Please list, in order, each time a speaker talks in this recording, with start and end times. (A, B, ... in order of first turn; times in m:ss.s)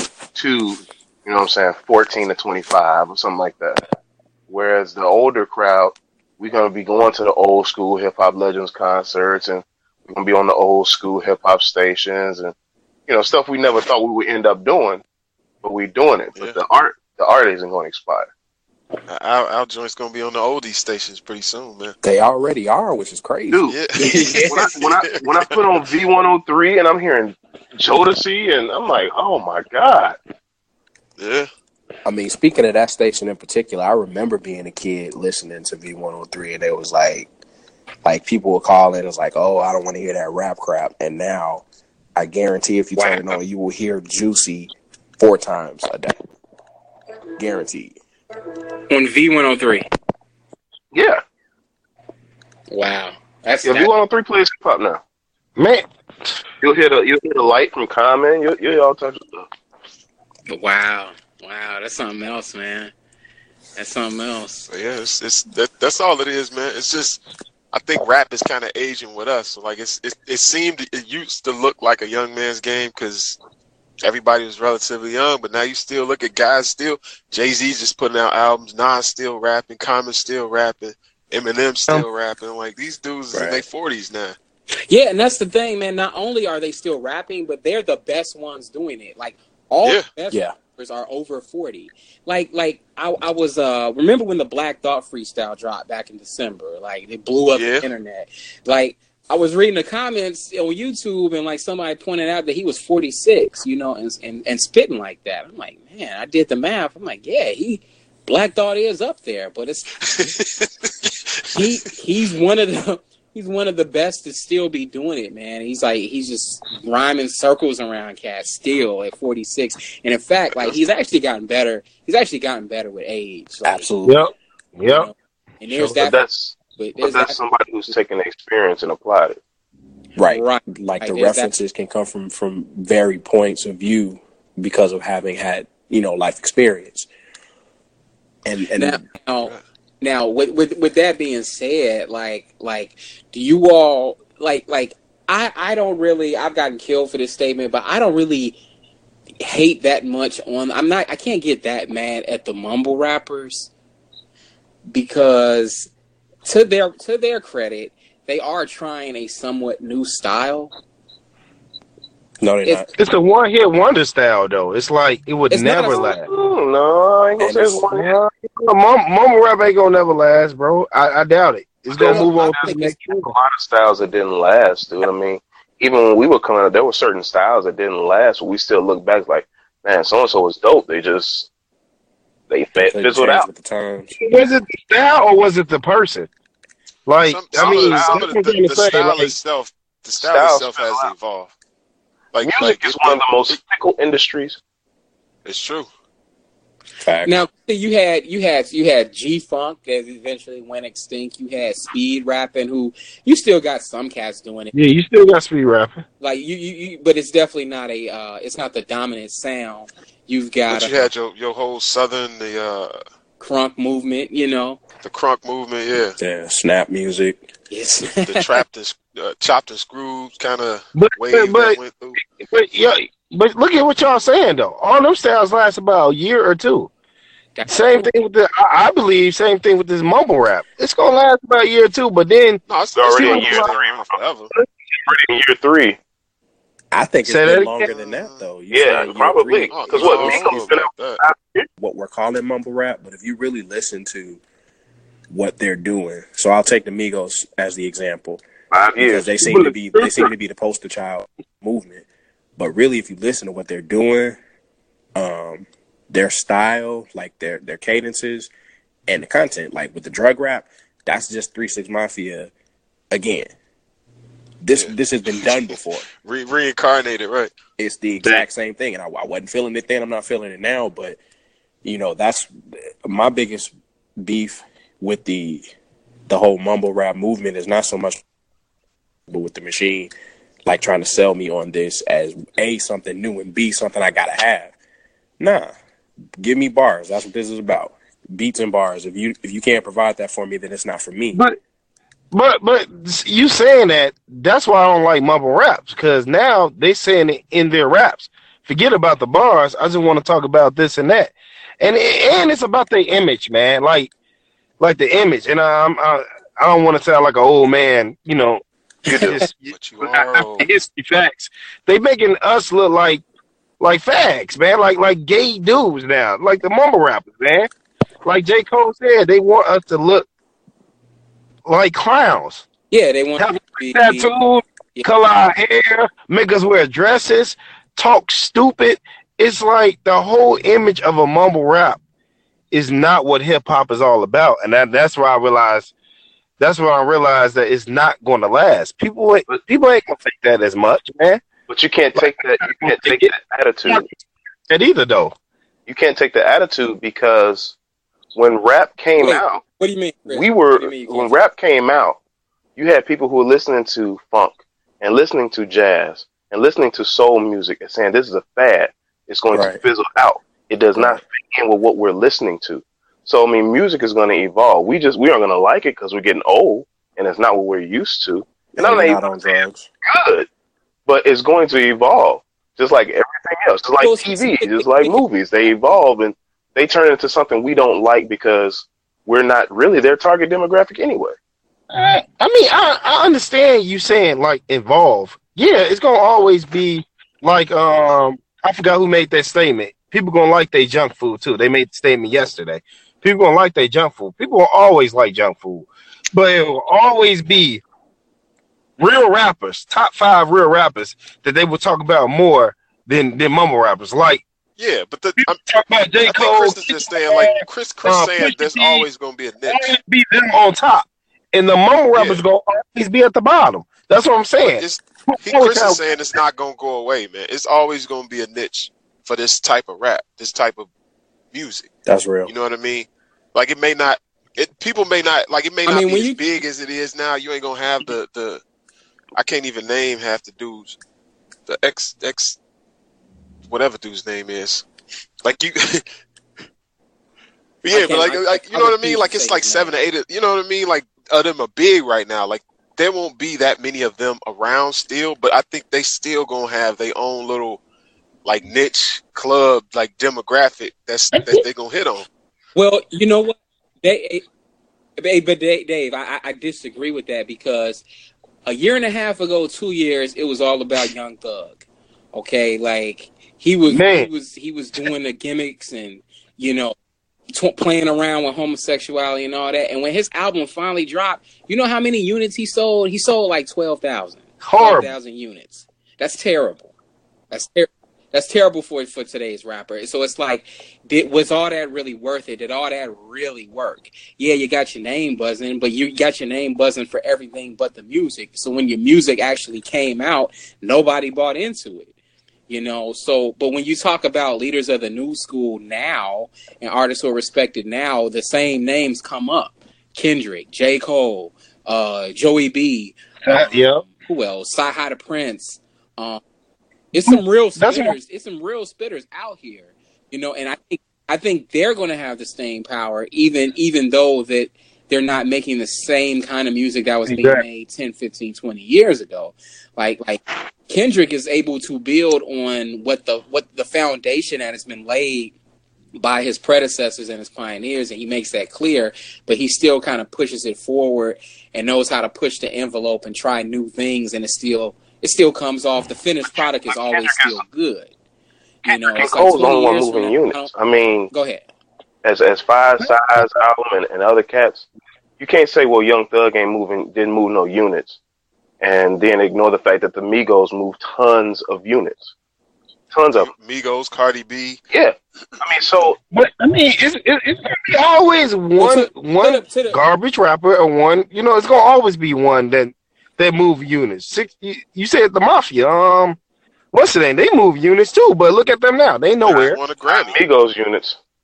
0:00.4-0:03.8 A
0:04.5-0:12.5 A
0:13.1-0:15.0 A
0:15.6-0:18.3 A
0:19.1-0:22.0 B
0:22.0-0:23.8 C
0:23.5-0:23.8 A
0:23.7-0:25.6 B
0:24.0-0:24.5 D
0:24.5-0:30.2 A
0:31.2-0:31.5 B
0:32.0-0:37.3 C
0:38.0-0:41.6 C
0:42.2-0:46.2 C
0:47.4-0:48.0 C
0:48.9-0:49.9 D
0:52.7-0:53.9 D
0:53.8-0:55.0 A
0:55.6-0:55.8 E
0:56.6-0:59.5 A
1:00.5-1:02.9 D
1:03.8-1:04.7 D
1:04.7-1:07.2 B
1:07.7-1:13.4 B
1:14.0-1:24.4 B
1:23.3-1:23.6 C
1:24.9-1:50.1 D
1:37.6-1:37.8 B
1:50.1-1:51.6 B
1:51.5-2:03.9 D
2:03.6-2:04.2 C
2:04.0-2:05.1 E
2:04.9-2:06.2 D
2:05.7-2:06.0 E
2:06.0-2:09.4 A
2:06.8-2:07.4 D
2:10.2-2:17.1 C
2:10.3-2:11.5 D
2:18.4-2:19.0 C
2:18.8-2:28.6 D
2:29.4-2:33.7 D
2:34.9-2:35.9 D
2:36.4-2:40.7 D
2:42.4-2:42.9 C
2:43.0-2:46.3 E
2:45.5-2:46.1 D
2:45.9-2:48.1 A
2:47.4-2:47.8 C
2:47.9-2:53.3 E
2:51.9-3:01.5 A
3:02.5-3:03.5 A
3:02.8-3:04.1 C
3:04.2-3:06.3 E
3:07.1-3:09.4 E
3:07.3-3:11.5 B
3:07.5-3:08.3 A
3:10.2-3:11.1 A
3:12.3-3:13.6 B
3:12.4-3:14.6 A
3:15.5-3:15.9 B
3:17.0-3:17.4 C
3:17.2-3:24.8 D
3:24.7-3:26.0 E
3:26.2-3:31.1 D
3:30.7-3:33.0 B
3:33.4-3:34.8 D
3:35.0-3:36.2 B
3:36.2-3:37.4 C
3:37.7-3:38.6 D
3:38.1-3:42.2 B
3:41.0-3:41.8 E
3:42.3-3:46.9 E
3:47.6-3:48.1 D
3:47.7-3:52.6 E
3:52.7-3:54.5 B
3:53.0-3:56.0 A
3:53.1-3:53.7 E
3:56.9-4:00.5 C
3:57.2-3:57.8 E
3:57.8-3:58.5 B
3:58.7-4:01.7 A
3:59.7-4:01.2 B
4:01.8-4:04.4 C
4:05.3-4:08.4 C
4:08.7-4:10.3 A
4:09.0-4:12.1 C
4:12.6-4:14.4 C
4:15.2-4:18.5 C
4:19.1-4:22.5 C
4:23.1-4:23.5 C
4:24.6-4:26.1 C
4:26.2-4:27.5 B
4:27.8-4:31.2 C
4:31.8-4:35.6 C
4:36.3-4:38.2 C
4:39.3-4:40.1 C
4:40.7-4:44.8 C
4:45.4-4:45.7 C
4:46.4-4:51.4 C
4:52.3-5:04.1 E
5:04.8-5:13.2 E
5:09.1-5:10.7 B
5:13.8-5:17.7 E
5:18.2-5:20.3 E
5:21.7-5:22.6 E
5:22.9-5:24.3 D
5:23.4-5:32.0 E
5:32.7-5:35.9 E
5:36.6-5:41.4 E
5:41.7-5:44.0 A
5:42.2-5:43.3 E
5:44.7-5:45.3 E
5:45.9-5:47.8 A
5:48.4-5:49.6 A
5:49.2-5:51.4 D
5:50.3-5:52.2 A
5:52.8-6:10.5 A
5:59.5-5:59.8 C
6:08.8-6:09.9 C
6:11.1-6:21.4 A
6:14.0-6:15.2 D
6:21.9-6:37.8 E
6:39.0-6:44.4 E
6:44.8-6:45.7 B
6:45.4-6:49.1 E
6:46.2-6:49.8 B
6:49.7-6:56.0 E
6:52.2-6:52.4 B
6:54.6-7:00.9 B
7:01.5-7:01.9 B
7:02.1-7:02.5 C
7:02.5-7:08.6 B
7:05.9-7:06.4 D
7:09.4-7:11.0 B
7:11.7-7:12.6 B
7:13.7-7:14.8 B
7:15.4-7:16.1 B
7:17.8-7:27.8 B
7:17.9-7:20.0 D
7:28.4-7:32.3 B
7:32.8-7:34.4 D
7:35.2-7:38.0 D
7:38.6-7:41.8 D
7:42.3-7:47.0 D
7:43.9-7:44.3 E
7:47.5-7:56.9 D
7:54.6-7:55.1 E
7:57.5-8:12.1 D
8:12.7-8:26.4 D
8:23.4-8:24.0 E
8:27.1-8:45.5 D
8:27.3-8:28.2 E
8:37.3-8:37.6 E
8:46.1-8:58.1 D
8:56.5-8:57.6 A
8:58.9-9:00.7 D
8:58.9-9:01.3 A
9:01.3-9:01.6 D
9:02.2-9:04.9 A
9:05.4-9:08.2 A
9:08.8-9:12.3 A
9:13.1-9:13.5 A
9:13.4-9:14.8 B
9:14.9-9:16.2 A
9:16.3-9:26.4 E
9:18.8-9:20.0 D
9:26.9-9:29.8 E
9:29.5-9:30.4 B
9:30.1-9:31.2 A